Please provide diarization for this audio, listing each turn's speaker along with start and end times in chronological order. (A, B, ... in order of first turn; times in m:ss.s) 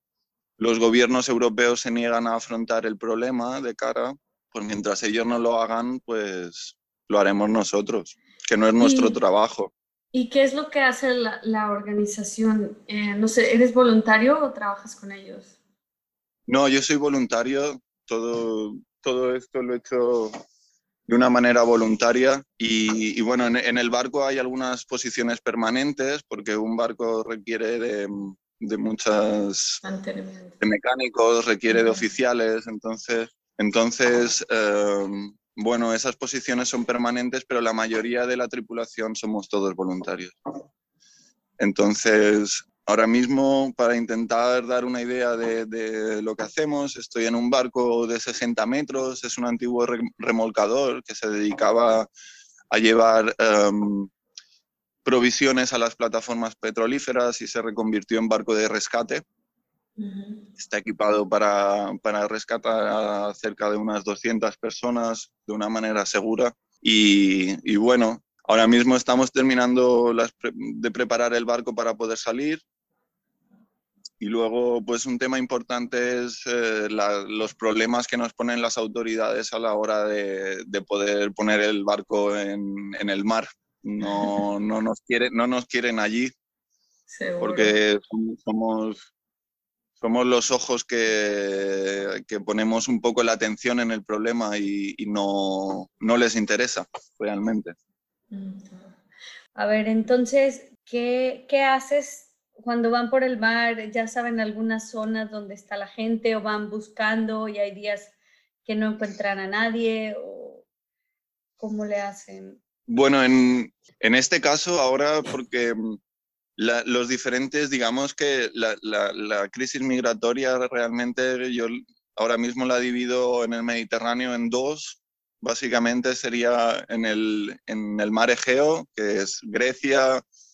0:00.6-0:09.7 A
0:08.8-0:09.2 B
0:10.1-0:15.5 B
0:16.5-0:20.4 A
0:21.1-0:29.8 A
0:29.8-0:30.6 B
0:30.6-0:40.4 A
0:31.7-0:32.1 B
0:41.6-0:52.1 A
0:52.7-0:54.1 A
0:55.0-0:59.2 A
1:00.0-1:00.5 B
1:00.6-1:12.6 A
1:14.2-1:26.3 A
1:27.1-1:27.8 B
1:27.4-1:29.1 A
1:30.0-1:37.8 A
1:38.3-1:39.0 B
1:39.5-1:48.1 B
1:48.6-1:50.6 B
1:51.6-1:52.6 B
1:52.9-1:56.0 A
1:56.6-2:10.2 A